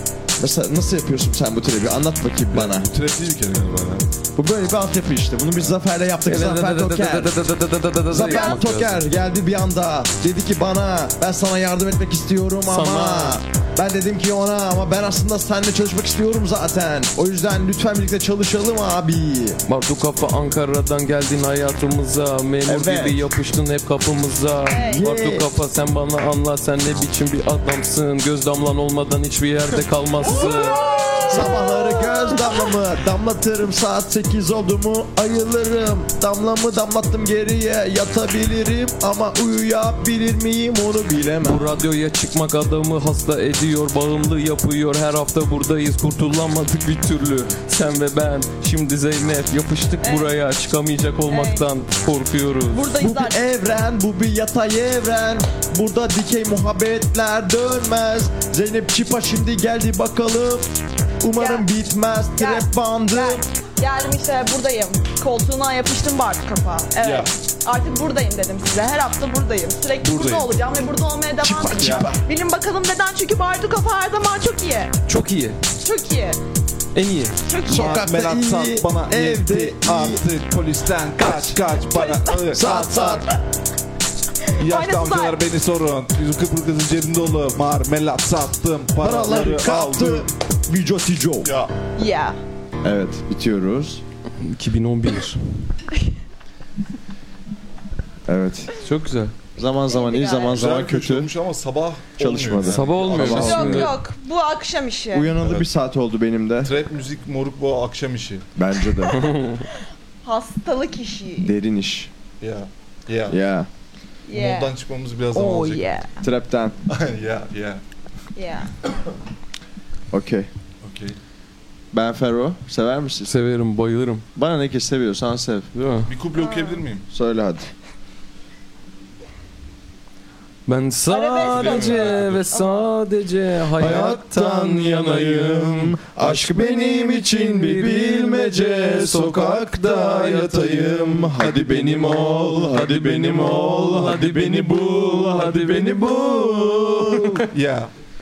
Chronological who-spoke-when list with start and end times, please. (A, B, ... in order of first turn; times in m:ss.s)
0:00.4-0:02.9 A
0:02.5-0:04.1 B
0:04.4-0:07.4 A
0:06.2-0:09.0 C
0:08.1-0:19.6 A
0:08.2-0:08.6 D
0:12.6-0:13.4 C
0:19.6-0:30.8 C
0:22.6-0:23.2 A
0:24.7-0:25.1 D
0:24.8-0:25.5 A
0:30.5-0:41.7 A
0:30.5-0:32.6 D
0:41.4-0:53.0 C
0:50.0-0:50.3 D
0:51.3-0:51.6 D
0:52.7-0:53.4 D
0:53.0-1:00.7 A
1:01.2-1:03.4 A
1:01.4-1:01.6 D
1:02.4-1:14.9 D
1:07.0-1:07.3 B
1:10.0-1:10.5 B
1:11.4-1:12.2 A
1:15.1-1:15.6 C
1:15.8-1:16.4 D
1:17.0-1:17.4 C
1:17.4-1:18.0 D
1:17.6-1:20.2 A
1:17.6-1:23.0 B
1:21.2-1:23.4 D
1:22.5-1:23.3 A
1:24.6-1:30.3 B
1:24.6-1:25.4 D
1:29.0-1:31.5 A
1:31.4-1:31.7 B
1:32.0-1:32.4 D
1:32.8-1:34.0 A
1:34.4-1:35.7 C
1:38.3-1:38.7 A
1:38.8-1:39.4 C
1:39.6-1:41.3 A
1:39.9-1:40.6 D
1:40.5-1:43.9 B
1:42.2-1:44.0 A
1:42.7-1:44.0 C
1:43.2-1:45.3 D
1:45.1-1:46.7 A
1:45.4-1:45.7 B
1:46.6-1:48.5 B
1:48.6-1:49.4 A
1:49.2-1:49.6 C
1:50.2-1:51.5 D
1:51.4-1:52.1 A
1:52.4-1:53.4 B
1:53.3-1:53.7 A
1:54.3-1:54.7 D
1:54.3-1:56.0 B
1:55.3-1:56.1 D
1:56.2-1:56.8 A
1:56.9-1:57.8 B
1:58.4-1:58.7 D
2:00.1-2:00.5 A
2:00.8-2:01.2 B
2:01.9-2:03.3 A
2:03.3-2:04.2 C
2:04.4-2:05.7 A
2:05.7-2:06.1 C
2:06.1-2:07.0 B
2:06.4-2:06.8 D
2:07.1-2:07.7 A
2:10.6-2:27.4 C
2:11.1-2:12.9 D
2:11.4-2:12.5 B
2:13.8-2:27.4 A
2:27.5-2:27.9 B